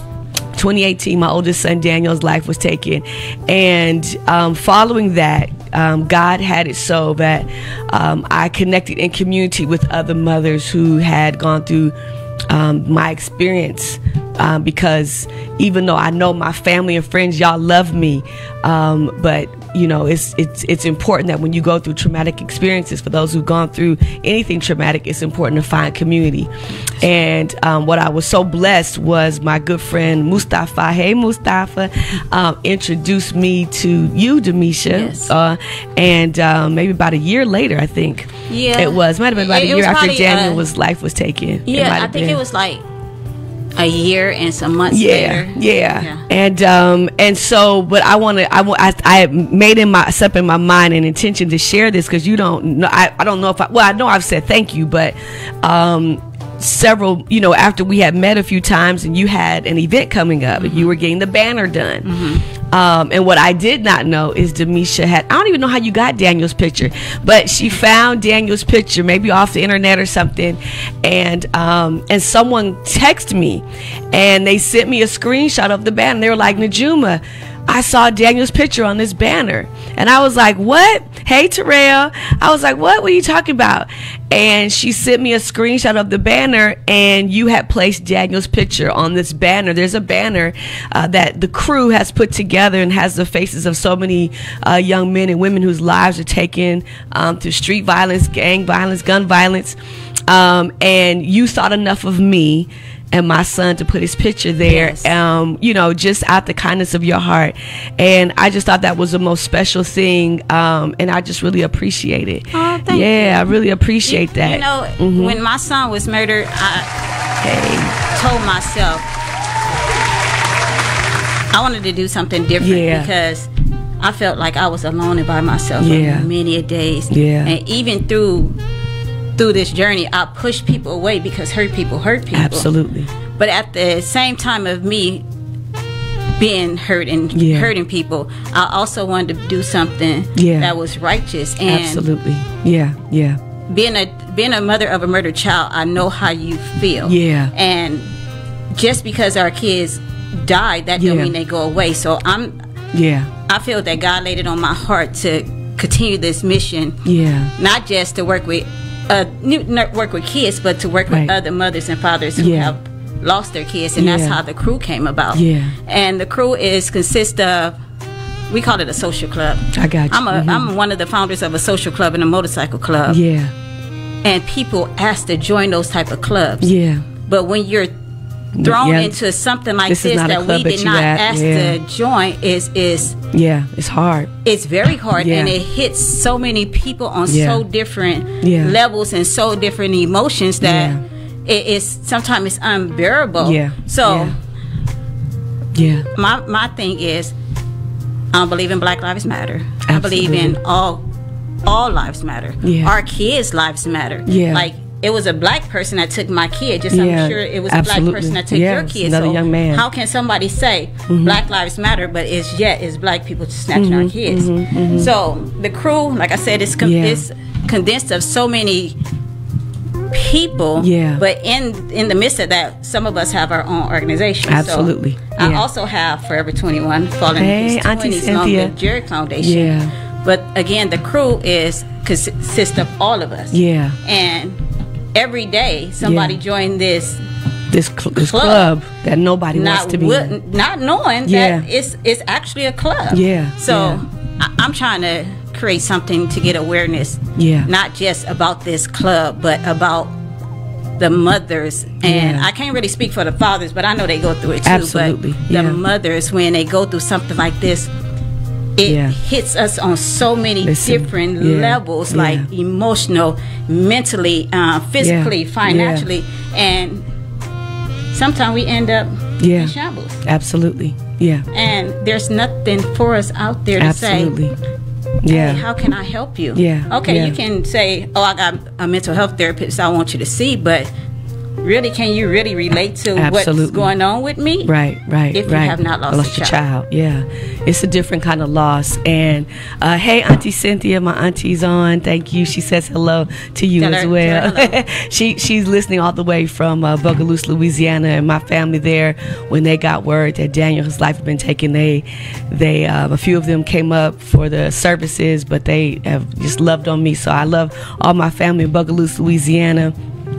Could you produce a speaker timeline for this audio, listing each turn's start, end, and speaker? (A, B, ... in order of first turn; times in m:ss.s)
0:00.5-0:11.9 A
0:12.5-0:42.4 A
0:34.9-0:35.3 B
0:38.5-0:40.6 B
0:41.6-0:42.8 B
0:43.8-0:46.2 B
0:44.9-1:02.2 A
1:00.6-1:00.9 B
1:02.0-1:02.4 B
1:02.7-1:39.8 A
1:40.3-1:55.4 A
1:44.6-1:45.1 B
1:52.5-1:53.5 B
1:54.0-1:56.9 B
1:57.4-1:58.0 A
1:58.0-1:59.1 B
2:01.5-2:08.6 B
2:02.6-2:03.1 A
2:05.8-2:06.3 A
2:07.1-2:07.5 A
2:09.4-2:12.7 B
2:12.3-2:13.1 A
2:13.4-2:15.2 B
2:16.4-2:22.0 B
2:17.3-2:17.7 A
2:20.4-2:20.8 A
2:21.6-2:23.4 A
2:23.7-2:28.1 B
2:27.0-2:27.5 A
2:28.7-2:32.5 B
2:31.0-2:31.3 A
2:32.9-2:33.3 A
2:33.5-2:37.0 B
2:37.0-2:37.5 A
2:37.6-2:47.8 B
2:41.1-2:41.3 A
2:42.4-2:42.7 A
2:44.0-2:44.4 A
2:45.3-2:45.7 A
2:48.5-2:53.2 B
2:49.7-2:50.7 A
2:53.1-2:53.5 A
2:54.2-2:56.7 B
2:56.6-2:57.0 A
2:57.2-2:57.9 B
2:58.6-2:59.2 A
2:58.6-3:03.2 B
2:59.9-3:01.8 A
3:03.3-3:04.3 A
3:04.4-3:14.4 B
3:05.2-3:05.6 A
3:07.3-3:07.6 A
3:08.4-3:08.7 A
3:10.6-3:11.0 A
3:13.4-3:14.3 A
3:15.7-3:16.0 A
3:16.1-3:17.3 B
3:18.3-3:21.0 B
3:19.9-3:20.6 A
3:21.6-3:39.0 B
3:22.6-3:22.9 A
3:24.2-3:24.7 A
3:26.9-3:29.9 A
3:31.1-3:31.4 A
3:33.7-3:35.1 A
3:36.8-3:37.2 A
3:40.1-3:54.6 B
3:40.8-3:41.2 A
3:44.5-3:45.6 A
3:47.3-3:48.7 A
3:49.4-3:49.9 A
3:53.5-3:54.0 A
3:55.1-3:57.2 B
3:56.0-3:56.4 A
3:57.7-4:00.3 A
3:58.1-3:58.7 B
3:59.5-4:10.1 B
4:01.2-4:01.6 A
4:03.1-4:04.0 A
4:07.4-4:07.7 A
4:11.0-4:17.9 B
4:12.0-4:12.5 A
4:14.6-4:15.8 A
4:18.8-4:27.0 B
4:18.8-4:19.1 A
4:20.6-4:22.5 A
4:25.0-4:26.1 A
4:28.1-4:30.2 B
4:29.4-4:31.5 A
4:31.5-4:34.4 B
4:33.8-4:34.5 A
4:35.2-4:35.6 A
4:35.3-4:40.9 B
4:36.5-4:37.4 A
4:41.6-4:44.7 B
4:43.1-4:43.9 A
4:44.6-5:10.0 A
4:45.3-4:46.6 B
4:53.8-4:54.8 B